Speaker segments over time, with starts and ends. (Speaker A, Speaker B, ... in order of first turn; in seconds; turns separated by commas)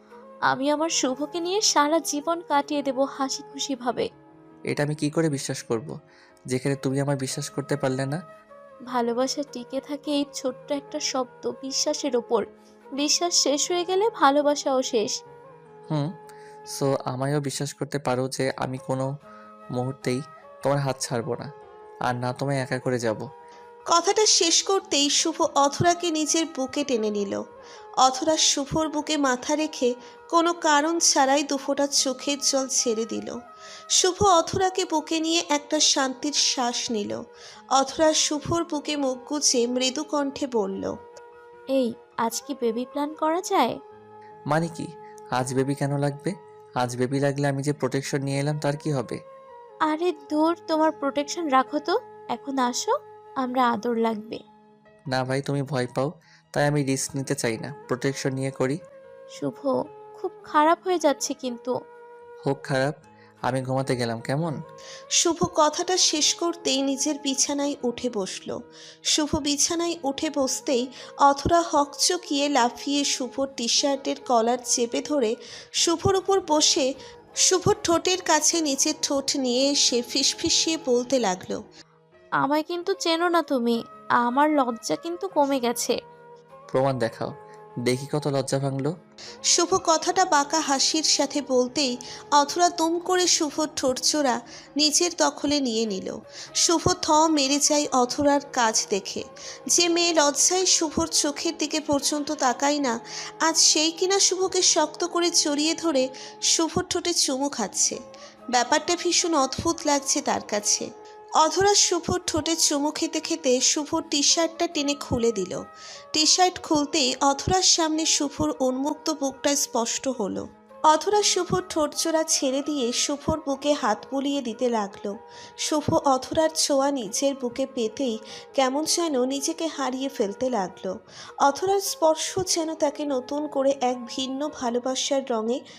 Speaker A: 0.5-4.1, Speaker B: 4.7-5.9, Speaker B: 6.5-8.2, Speaker A: 8.9-12.4, Speaker A: 13.0-15.1, Speaker B: 16.7-19.1, Speaker B: 19.8-21.5, Speaker B: 22.1-23.2, Speaker C: 23.9-27.4, Speaker C: 28.0-33.3, Speaker C: 34.0-37.2, Speaker C: 37.8-40.8, Speaker A: 41.7-43.7, Speaker B: 44.5-49.2, Speaker A: 49.9-54.4, Speaker B: 55.1-58.8, Speaker A: 59.4-61.7, Speaker B: 62.4-62.9, Speaker B: 63.5-64.5, Speaker C: 65.2-68.5, Speaker C: 69.2-75.3, Speaker C: 75.9-76.8, Speaker C: 77.5-81.6, Speaker A: 82.4-85.9, Speaker B: 86.7-87.3, Speaker B: 87.8-88.9, Speaker C: 89.5-96.1, Speaker C: 96.7-99.2, Speaker C: 99.8-102.9, Speaker C: 103.5-106.0, Speaker C: 106.6-108.0, Speaker C: 108.6-110.8, Speaker C: 111.5-115.6, Speaker C: 116.1-120.4, Speaker C: 120.9-125.1, Speaker C: 125.7-130.9, Speaker C: 131.5-135.6